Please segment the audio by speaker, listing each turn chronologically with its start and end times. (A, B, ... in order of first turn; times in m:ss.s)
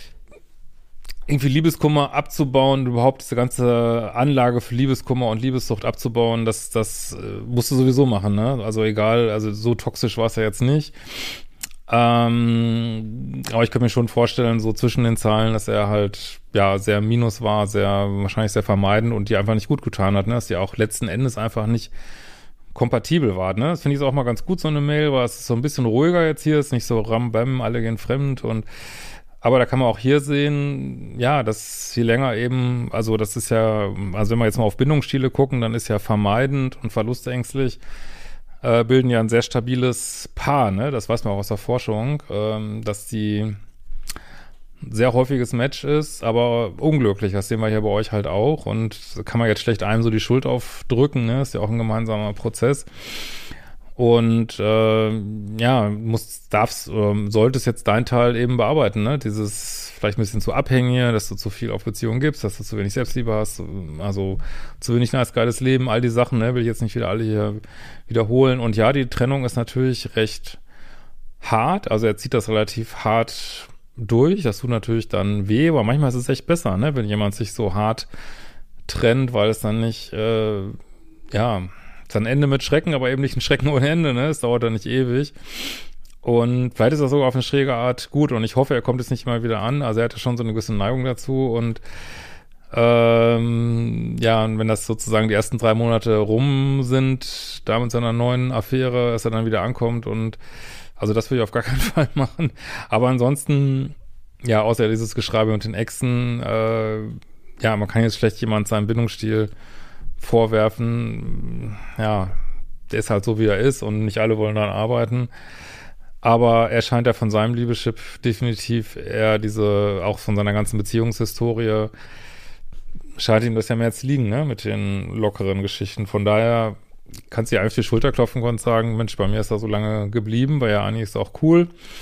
0:01.3-0:21.9 A
0:22.7-0:28.6 A
0:29.4-0:37.8 A
0:38.6-0:43.6 A
0:44.8-0:53.3 A
0:54.0-1:10.6 A
1:11.4-1:18.1 A
1:18.9-1:20.8 A
1:21.3-1:31.8 A
1:32.7-1:40.4 A
1:41.0-1:49.5 A
1:50.2-1:52.4 A
1:52.9-1:55.3 A
1:56.2-2:01.9 A
2:03.2-2:06.8 A
2:07.3-2:11.7 A